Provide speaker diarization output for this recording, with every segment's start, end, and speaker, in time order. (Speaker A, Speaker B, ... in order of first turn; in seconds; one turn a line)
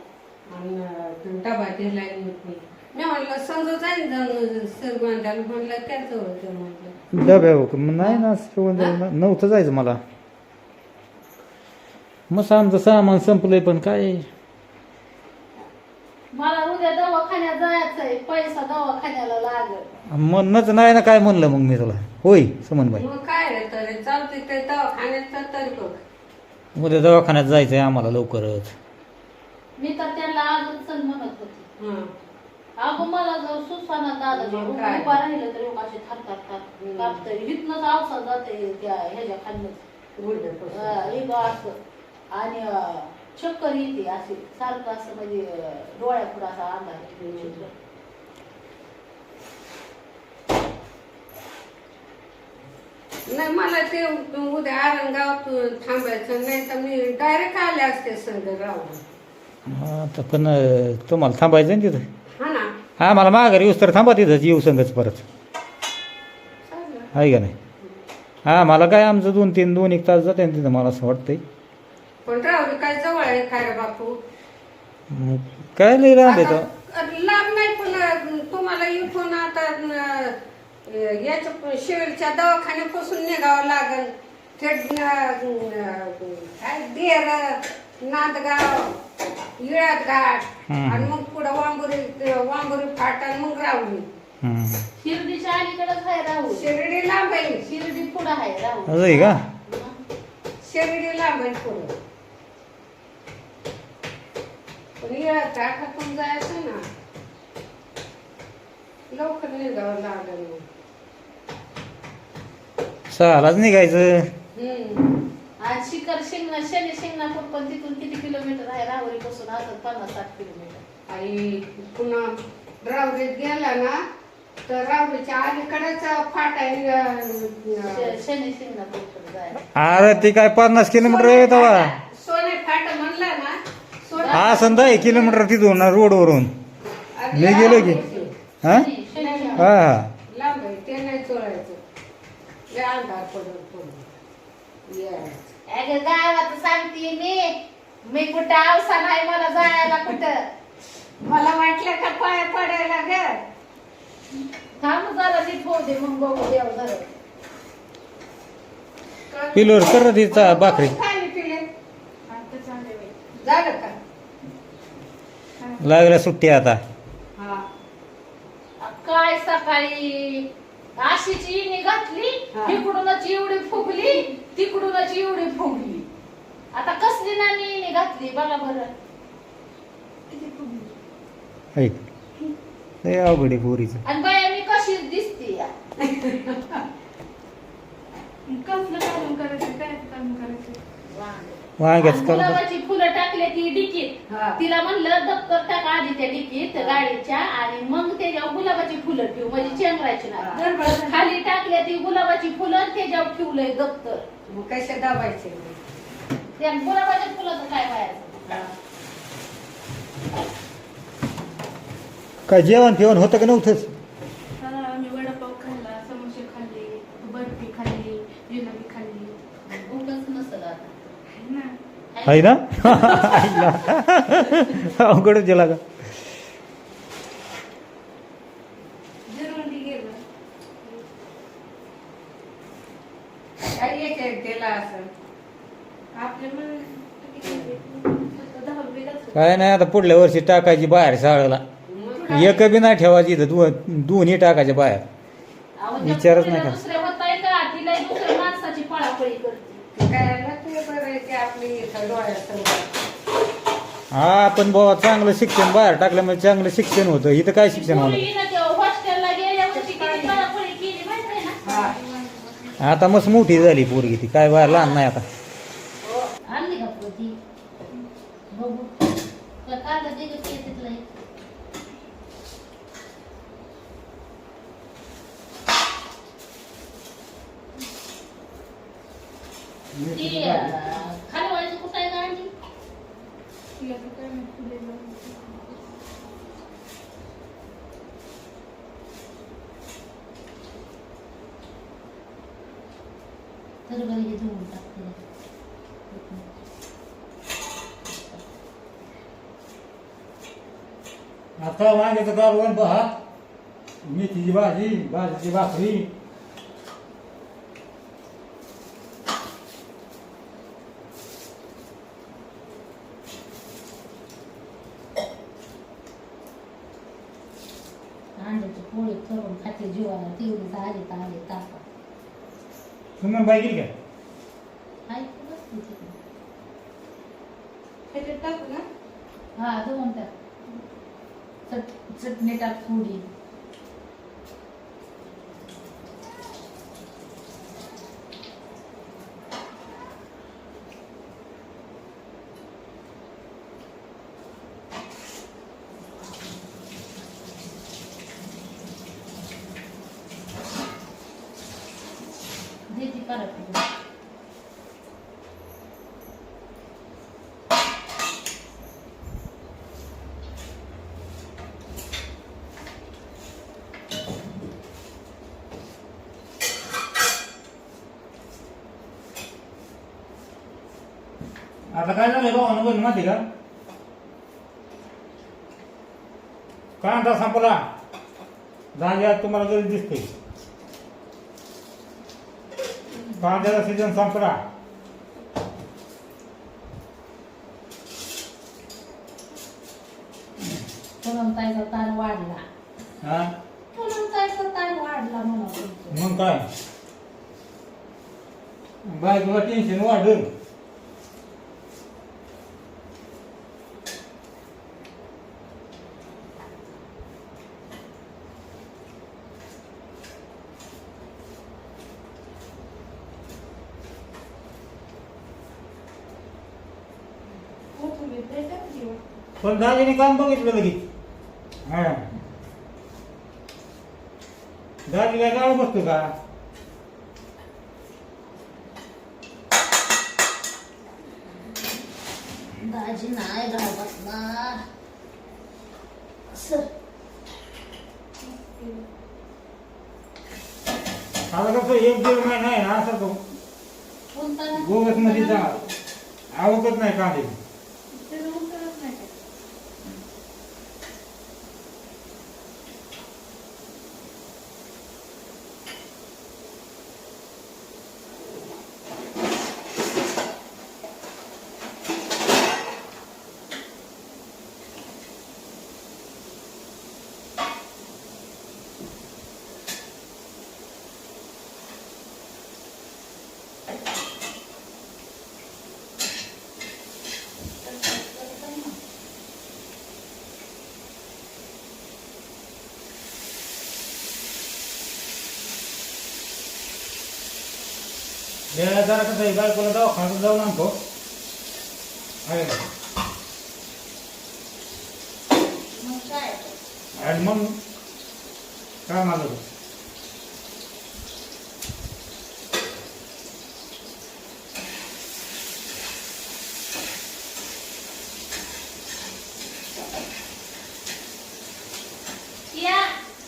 Speaker A: 0.5-7.0
Speaker B: 7.1-10.0
Speaker B: 12.3-14.3
Speaker C: 16.3-19.9
Speaker B: 20.1-23.1
Speaker A: 22.9-26.0
Speaker B: 26.8-28.7
Speaker C: 29.8-31.7
Speaker A: 31.8-32.1
Speaker C: 32.8-39.8
Speaker A: 34.3-35.2
Speaker A: 36.8-37.2
Speaker A: 40.2-41.2
Speaker C: 40.7-41.8
Speaker C: 42.3-47.7
Speaker A: 47.3-47.6
Speaker A: 53.3-59.0
Speaker B: 59.7-62.1
Speaker A: 62.4-62.7
Speaker B: 63.0-65.2
Speaker A: 66.7-67.1
Speaker B: 67.1-67.5
Speaker B: 68.5-71.4
Speaker A: 72.2-74.2
Speaker B: 75.1-76.7
Speaker A: 76.2-88.9
Speaker A: 89.6-94.0
Speaker B: 90.7-91.1
Speaker B: 94.4-94.9
Speaker C: 95.0-96.7
Speaker A: 96.5-97.6
Speaker C: 97.6-100.0
Speaker B: 98.9-99.4
Speaker A: 100.6-101.9
Speaker A: 105.0-106.8
Speaker A: 109.1-110.6
Speaker B: 113.1-114.3
Speaker A: 114.5-115.2
Speaker C: 115.6-120.8
Speaker A: 121.1-124.0
Speaker A: 124.7-128.2
Speaker C: 127.8-129.7
Speaker B: 129.8-131.9
Speaker A: 131.0-135.4
Speaker C: 134.2-135.3
Speaker B: 134.3-136.5
Speaker A: 137.2-138.3
Speaker B: 137.3-138.0
Speaker C: 137.4-139.7
Speaker A: 139.2-139.7
Speaker B: 139.6-140.1
Speaker A: 140.3-141.8
Speaker A: 142.7-144.1
Speaker A: 144.9-145.4
Speaker C: 145.7-147.5
Speaker C: 148.1-150.4
Speaker A: 151.2-153.4
Speaker C: 154.8-157.1
Speaker A: 159.3-161.7
Speaker B: 159.5-161.0
Speaker D: 162.3-163.3
Speaker A: 163.4-164.0
Speaker B: 165.8-166.8
Speaker A: 167.4-167.6
Speaker C: 168.8-176.1
Speaker A: 172.5-172.8
Speaker C: 176.7-178.9
Speaker D: 180.3-181.0
Speaker B: 183.0-184.0
Speaker C: 184.1-185.7
Speaker A: 186.0-186.8
Speaker D: 188.5-190.8
Speaker C: 191.1-204.3
Speaker B: 191.8-192.6
Speaker A: 194.3-194.6
Speaker A: 196.8-197.0
Speaker A: 200.4-201.0
Speaker A: 204.5-205.8
Speaker C: 206.6-208.7
Speaker B: 212.5-213.9
Speaker D: 214.6-219.3
Speaker C: 219.7-220.9
Speaker D: 221.3-221.8
Speaker C: 222.1-223.8
Speaker B: 222.3-225.8
Speaker D: 229.3-230.2
Speaker A: 233.7-235.1
Speaker D: 236.1-239.4
Speaker A: 237.4-237.7
Speaker B: 239.3-241.6
Speaker A: 241.9-242.6
Speaker B: 242.3-245.1
Speaker C: 245.8-249.8
Speaker B: 246.0-246.8
Speaker A: 249.9-252.9
Speaker B: 254.1-258.2
Speaker C: 257.7-261.6
Speaker A: 259.8-260.3
Speaker D: 261.6-262.8
Speaker A: 261.6-261.9
Speaker B: 262.8-265.2
Speaker C: 266.0-267.4
Speaker C: 268.5-271.1
Speaker B: 279.9-280.8
Speaker C: 280.1-282.5
Speaker D: 283.8-285.8
Speaker C: 293.9-295.2
Speaker C: 296.1-296.5
Speaker C: 298.1-298.4
Speaker B: 301.6-303.1
Speaker B: 304.1-306.1
Speaker C: 318.4-321.8
Speaker B: 323.2-323.9
Speaker C: 325.1-326.1
Speaker D: 328.1-328.9
Speaker C: 329.6-330.3
Speaker C: 331.7-333.2
Speaker C: 352.9-353.9
Speaker B: 371.9-373.4
Speaker B: 377.0-377.8
Speaker B: 378.9-380.3
Speaker B: 383.4-384.6
Speaker C: 391.2-392.6
Speaker B: 393.2-393.5
Speaker C: 393.9-396.2
Speaker B: 396.1-396.6
Speaker B: 399.1-400.5
Speaker D: 417.9-419.2
Speaker B: 419.6-421.0
Speaker B: 421.9-422.3
Speaker B: 425.1-426.3
Speaker C: 432.7-434.8
Speaker C: 436.5-436.9
Speaker D: 438.4-439.1
Speaker B: 441.5-443.4
Speaker C: 444.3-445.9
Speaker B: 444.8-445.8
Speaker B: 446.5-447.6
Speaker D: 448.1-449.3
Speaker C: 477.9-478.9
Speaker B: 488.7-490.9
Speaker B: 492.4-492.8
Speaker C: 495.9-496.8
Speaker B: 497.1-497.8
Speaker B: 499.1-499.6
Speaker C: 512.7-513.1